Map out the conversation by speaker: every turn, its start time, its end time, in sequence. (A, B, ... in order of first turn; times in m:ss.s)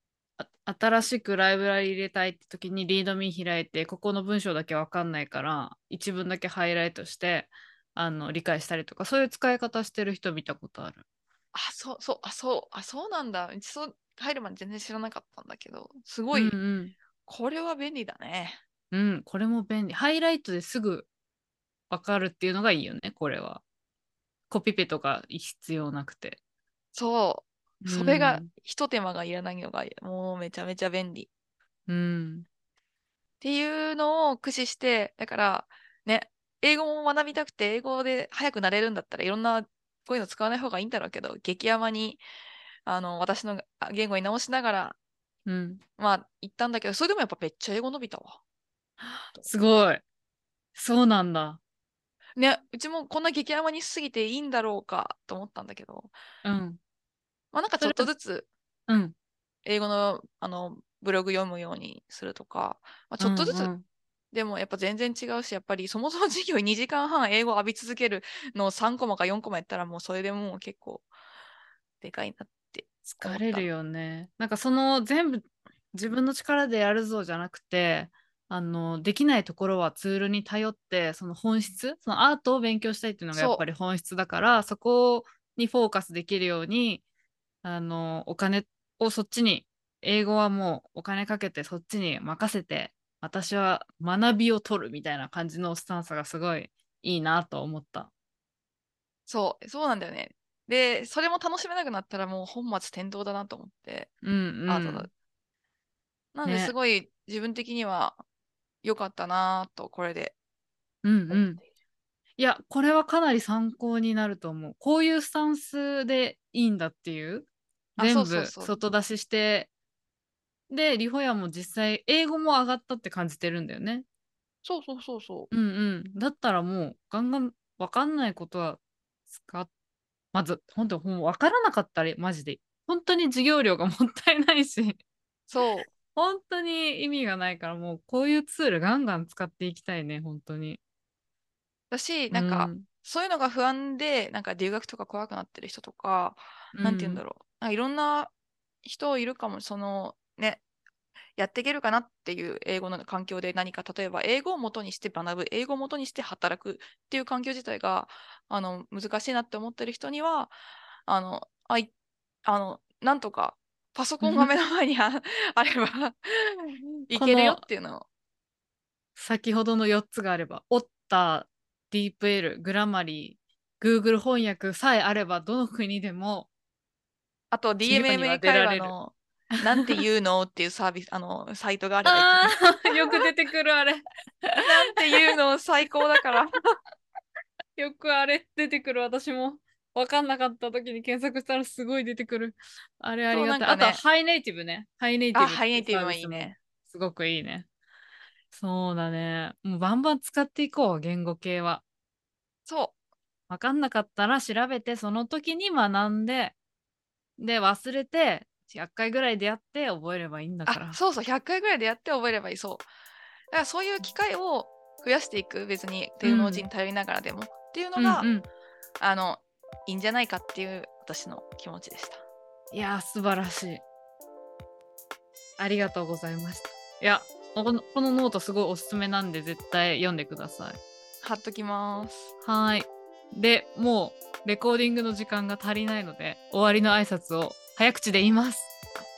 0:00.4-0:11.0 A
0:11.5-0:16.6 B
0:16.3-0:17.0 A
0:17.3-0:18.6 B
0:18.9-0:21.1 A
0:21.9-0:23.6 A
0:24.5-0:26.4 A
0:27.0-0:31.3 B
0:27.8-0:28.5 A
0:31.9-0:32.5 A
0:33.4-0:42.2 B
0:42.9-0:45.0 B
0:45.5-0:45.8 A
0:46.0-0:48.4 B
0:49.0-0:50.0 A
0:50.8-0:51.6 A
0:52.4-0:56.1 B
0:56.4-0:56.8 A
0:57.5-0:58.5 B
0:57.8-0:58.1 A
0:58.9-0:59.1 A
0:59.6-1:03.7 B
1:03.2-1:03.8 A
1:04.3-1:11.1 B
1:12.0-1:13.7 B
1:13.2-1:27.0 A
1:23.3-1:23.6 B
1:27.6-1:38.1 A
1:39.3-1:44.1 B
1:44.2-1:45.1 A
1:44.7-1:45.1 B
1:46.3-1:48.2 B
1:46.4-1:46.7 A
1:48.8-1:50.4 B
1:51.0-1:51.6 A
1:51.3-1:51.6 B
1:52.4-1:57.5 A
1:58.0-1:58.8 B
1:58.0-1:59.7 A
2:00.7-2:04.0 A
2:04.6-2:05.5 B
2:05.5-2:08.8 A
2:09.3-2:09.7 A
2:10.3-2:15.0 A
2:15.5-2:15.9 B
2:16.0-2:20.8 A
2:21.9-2:28.3 B
2:22.3-2:22.9 A
2:26.8-2:27.2 A
2:28.8-2:30.6 B
2:31.4-2:40.5 B
2:41.1-2:41.9 B
2:42.4-2:48.1 B
2:44.2-2:44.5 A
2:47.1-2:47.6 A
2:49.2-2:56.5 A
2:57.5-3:03.2 B
2:57.8-2:58.9 A
2:59.8-3:00.0 A
3:02.0-3:05.2 A
3:04.6-3:06.6 B
3:07.8-3:17.7 A
3:13.3-3:14.0 B
3:15.4-3:16.6 B
3:18.5-3:21.8 A
3:22.7-3:23.0 B
3:23.5-3:26.6 A
3:27.4-3:31.0 A
3:30.7-3:32.9 B
3:33.5-3:38.3 B
3:36.2-3:36.7 A
3:38.0-3:38.5 A
3:39.0-3:42.2 B
3:42.7-3:43.8 A
3:45.6-3:50.8 A
3:51.2-3:52.3 B
3:52.4-3:58.7 A